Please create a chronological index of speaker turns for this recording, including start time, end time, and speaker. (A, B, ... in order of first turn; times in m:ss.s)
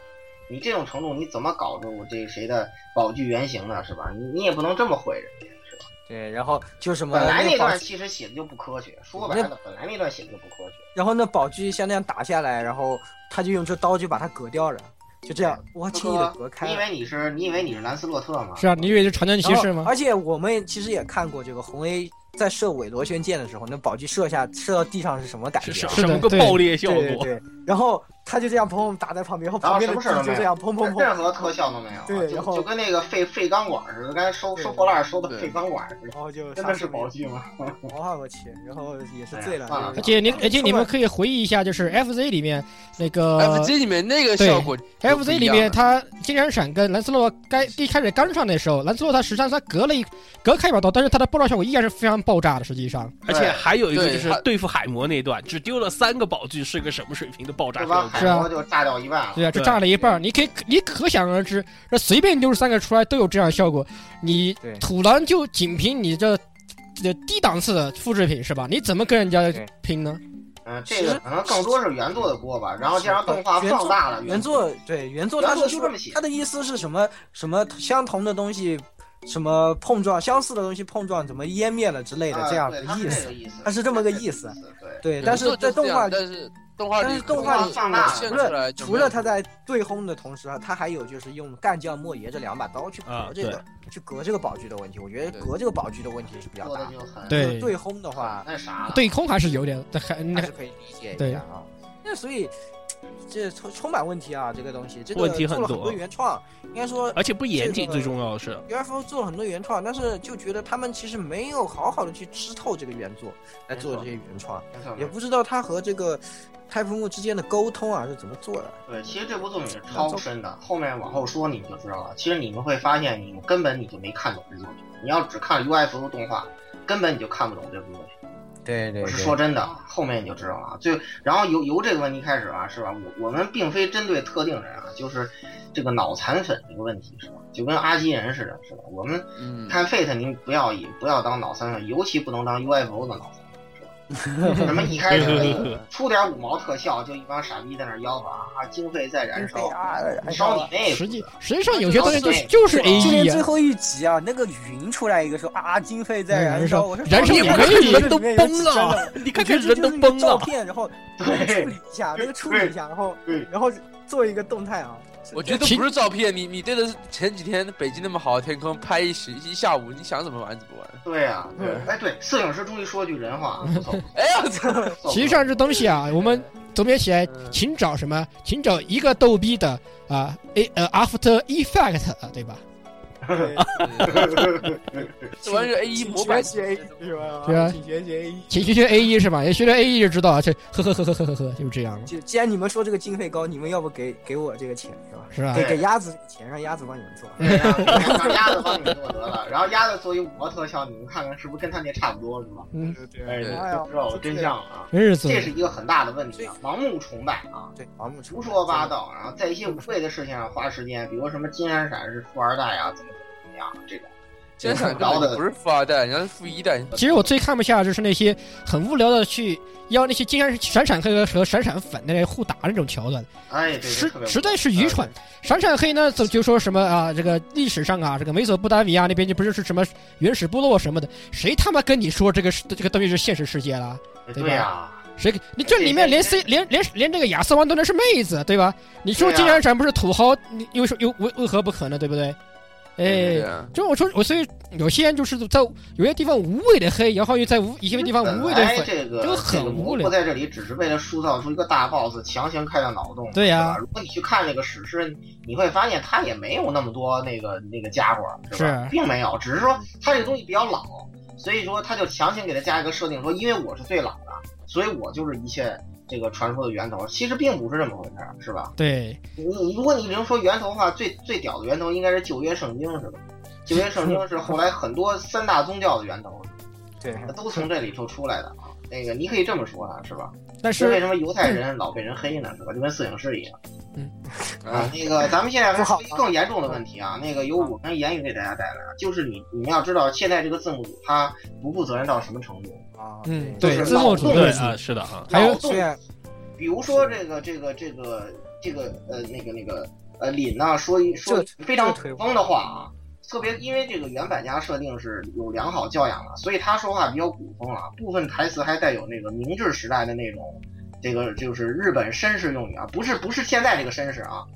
0:00.5-0:05.9 A
0:06.1-0:07.8 B
0:07.1-0:10.8 A
0:09.1-0:09.5 B
0:10.9-0:16.8 B
0:15.4-0:19.2 A
0:18.6-0:19.9 C
0:19.4-0:31.5 B
0:25.6-0:27.3 D
0:25.9-0:26.6 C
0:29.6-0:37.9 A
0:32.0-0:32.7 B
0:34.5-0:35.0 B
0:35.3-0:35.5 E
0:36.1-0:37.1 B
0:37.9-0:40.9 B
0:39.3-0:40.7 A
0:40.0-0:43.7 C
0:43.4-0:45.8 E
0:44.4-0:53.2 C
0:53.2-0:58.4 D
0:53.3-0:53.7 A
0:53.9-0:54.4 E
0:57.8-0:59.5 A
0:58.2-0:58.5 C
0:59.3-1:06.4 C
0:59.5-0:59.8 D
0:59.9-1:00.2 B
1:07.0-1:10.2 C
1:10.6-1:14.6 A
1:10.9-1:11.7 B
1:13.0-1:26.2 B
1:15.4-1:16.2 A
1:22.3-1:25.3 A
1:25.2-1:29.2 E
1:27.0-1:38.5 B
1:27.3-1:28.6 A
1:33.1-1:33.6 D
1:36.6-1:37.5 A
1:37.3-1:37.7 C
1:38.1-1:39.3 A
1:38.9-1:40.5 C
1:40.3-1:42.5 B
1:41.2-1:41.4 C
1:43.3-1:58.8 B
1:45.1-1:46.0 D
1:47.2-1:48.6 D
1:53.7-1:54.1 A
1:54.7-1:55.1 A
1:58.9-2:08.1 A
1:59.9-2:00.2 B
2:08.6-2:09.4 B
2:09.0-2:23.9 A
2:19.4-2:19.8 E
2:24.2-2:25.8 B
2:24.5-2:33.2 A
2:25.1-2:25.7 D
2:29.3-2:30.7 B
2:30.8-2:33.4 C
2:31.9-2:45.7 B
2:36.3-2:38.2 C
2:37.2-2:40.5 D
2:41.2-2:42.7 A
2:45.3-2:51.0 E
2:45.5-2:45.8 C
2:51.0-2:55.6 A
2:51.6-2:51.9 B
2:53.6-2:54.0 C
2:54.1-2:54.8 E
2:54.5-2:54.9 B
2:55.0-3:02.6 C
2:56.2-2:56.4 E
2:57.2-2:57.6 E
3:03.2-3:03.5 A
3:03.3-3:04.4 B
3:03.6-3:03.8 D
3:03.8-3:04.4 E
3:04.0-3:05.3 A
3:05.4-3:07.0 E
3:05.4-3:08.8 B
3:07.4-3:07.8 C
3:08.5-3:12.1 C
3:12.0-3:18.5 B
3:15.3-3:15.6 C
3:15.5-3:15.8 A
3:17.4-3:22.7 A
3:17.4-3:18.0 C
3:22.7-3:23.0 C
3:22.8-3:24.5 B
3:23.2-3:27.7 A
3:23.4-3:23.7 E
3:24.9-3:25.5 C
3:27.8-3:28.9 B
3:28.3-3:34.1 A
3:34.6-3:37.3 E
3:34.6-3:35.4 A
3:36.9-3:43.3 C
3:43.5-3:44.8 A
3:43.8-4:02.4 C
3:44.8-3:45.1 E
3:54.3-3:55.0 A
3:55.7-3:56.5 A
3:59.2-3:59.6 A
4:03.0-4:10.1 C
4:03.0-4:03.7 E
4:07.9-4:28.7 A
4:13.3-4:13.8 C
4:18.5-4:18.9 C
4:28.8-4:29.2 C
4:29.4-4:36.5 A
4:37.0-4:37.7 B
4:37.3-4:43.6 A
4:40.6-4:41.6 C
4:44.3-4:44.9 B
4:44.7-4:44.9 E
4:44.7-4:52.8 A
4:45.7-4:46.8 B
4:53.0-4:54.6 B
4:53.2-4:54.8 C
4:53.6-4:54.7 A
4:54.2-4:55.3 D
4:55.3-4:55.9 A
4:55.3-4:55.6 C
4:55.3-4:56.0 B
4:56.6-5:14.4 A
4:56.8-4:57.2 B
5:01.2-5:02.2 B